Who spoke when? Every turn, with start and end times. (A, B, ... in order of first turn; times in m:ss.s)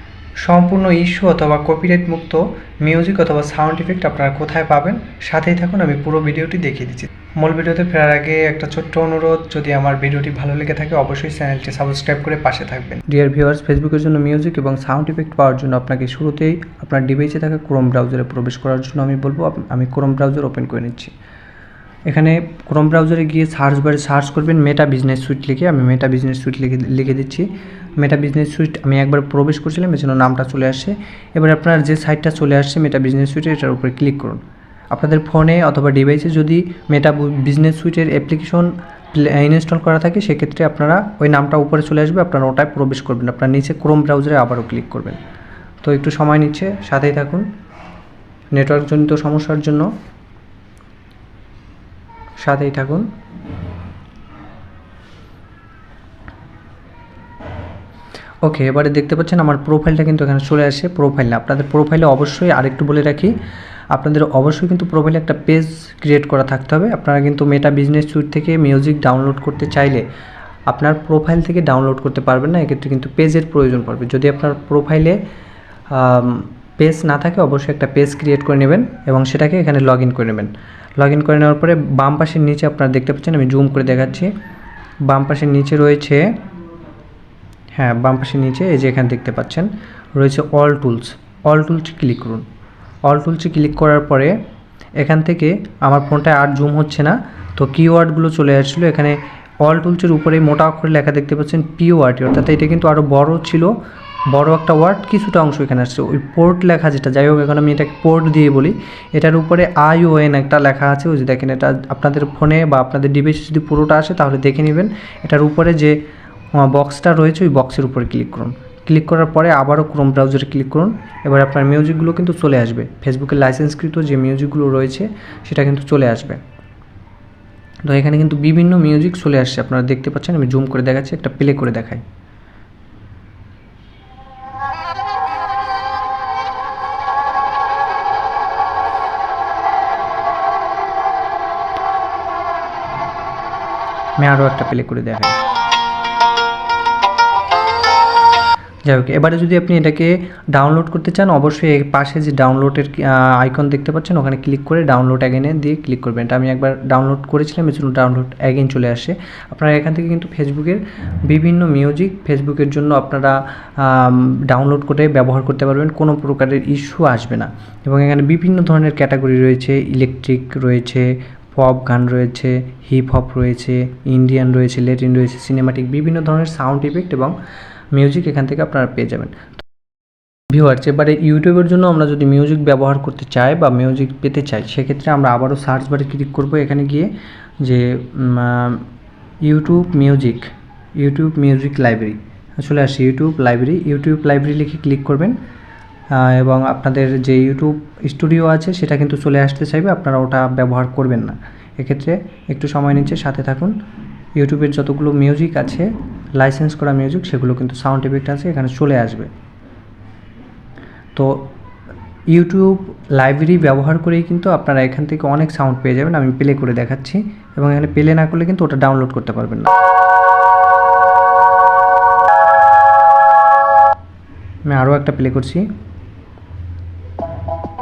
0:00.4-0:21.1 A
0:22.1-0:45.2 A
0:45.8-0:47.5 A
0:48.5-0:49.9 A
0:52.4-0:53.1 A
0:58.4-1:03.3 A
1:03.9-1:10.0 A
1:10.7-1:15.2 A
1:15.9-1:24.3 A
1:25.0-1:26.3 A
1:27.8-1:32.4 A
1:33.0-1:34.4 A
1:35.0-1:43.7 A
1:44.3-1:56.0 A
1:56.6-2:06.4 A
2:07.8-2:12.0 A
2:24.2-2:25.4 A
2:28.8-2:57.3 A
2:57.9-2:59.4 A
3:00.5-3:08.8 A
3:09.4-3:15.4 A
3:16.1-3:23.7 A
3:24.4-3:29.3 A
3:31.2-3:31.5 A
3:32.3-3:39.7 A
3:44.7-3:45.6 A